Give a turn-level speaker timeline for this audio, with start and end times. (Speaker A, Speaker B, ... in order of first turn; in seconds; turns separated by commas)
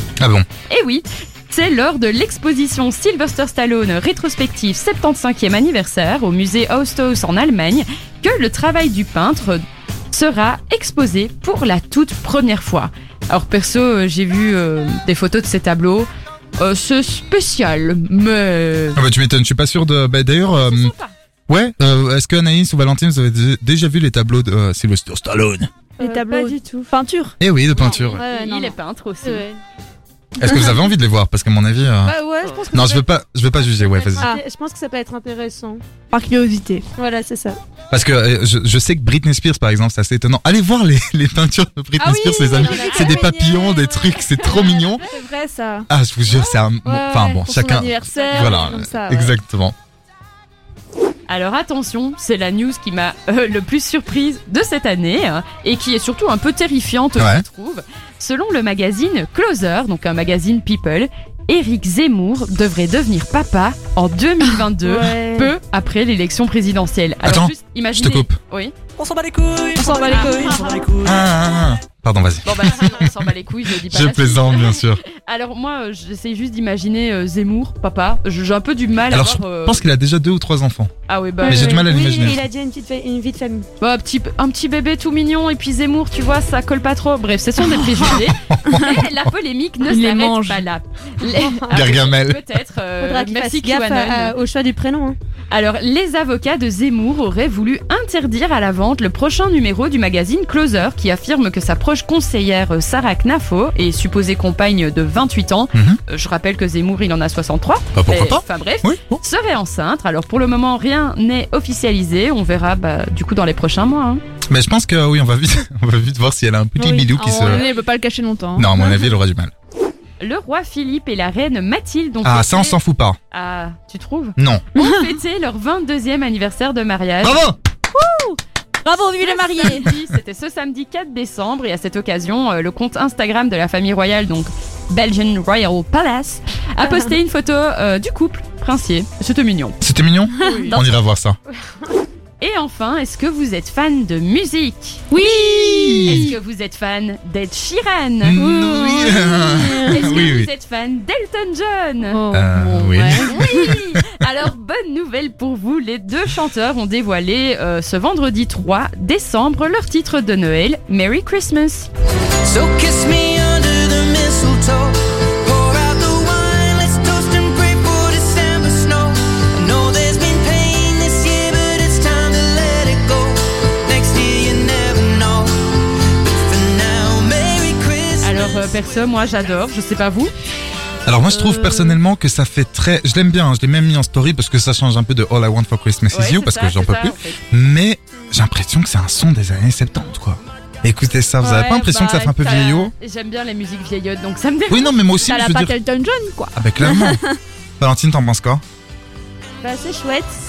Speaker A: 0.2-0.5, Speaker B: 0.7-19.0, Speaker A: 18.9-20.9, Speaker B: 20.5-21.1, Speaker A: 21.5-25.7, Speaker C: 26.0-26.9, Speaker D: 26.0-27.4, Speaker A: 27.4-28.2, Speaker B: 27.7-29.4, Speaker D: 28.0-28.7, Speaker C: 29.2-29.5, Speaker A: 30.4-32.1, Speaker D: 30.4-30.8, Speaker C: 32.0-33.0, Speaker A: 32.7-34.3, Speaker C: 33.8-35.8, Speaker D: 36.1-36.9, Speaker C: 37.0-37.6, Speaker A: 37.9-45.0, Speaker D: 42.0-45.9, Speaker C: 42.6-43.1, Speaker A: 45.9-49.7, Speaker D: 46.8-49.4, Speaker B: 51.3-68.7, Speaker A: 57.2-57.4, Speaker C: 64.8-65.5, Speaker A: 67.2-68.3, Speaker D: 69.7-71.1, Speaker A: 71.0-73.1, Speaker B: 72.4-79.8, Speaker A: 73.8-75.0, Speaker A: 79.1-80.9, Speaker B: 81.1-81.8, Speaker C: 81.4-83.6, Speaker A: 81.4-82.4, Speaker B: 83.8-94.3, Speaker A: 88.4-89.1, Speaker D: 89.8-90.6, Speaker C: 91.2-91.6, Speaker A: 91.7-92.4, Speaker C: 93.0-95.2, Speaker B: 95.5-114.2, Speaker A: 107.9-109.2, Speaker A: 114.5-117.7, Speaker D: 116.8-118.8, Speaker B: 117.3-117.7, Speaker A: 118.5-119.5, Speaker B: 120.2-122.8, Speaker A: 122.2-123.2, Speaker B: 123.3-127.4, Speaker A: 124.4-124.7, Speaker A: 127.2-127.6, Speaker D: 127.9-129.9, Speaker B: 129.2-139.8, Speaker A: 139.8-141.4, Speaker D: 140.4-140.8, Speaker B: 140.4-140.7, Speaker B: 142.4-145.1, Speaker D: 145.1-146.3, Speaker A: 145.2-146.3, Speaker B: 146.0-148.4, Speaker A: 148.2-150.5, Speaker D: 148.3-150.3, Speaker B: 149.9-152.2, Speaker D: 152.1-153.7, Speaker A: 152.3-153.8, Speaker B: 153.2-161.9, Speaker E: 162.4-178.6, Speaker B: 178.2-180.3, Speaker A: 181.1-192.9, Speaker D: 181.3-181.8, Speaker B: 186.1-187.4, Speaker B: 191.4-195.0, Speaker A: 194.7-195.7, Speaker D: 195.2-197.4, Speaker A: 196.6-197.2, Speaker A: 197.8-198.6, Speaker C: 199.6-200.3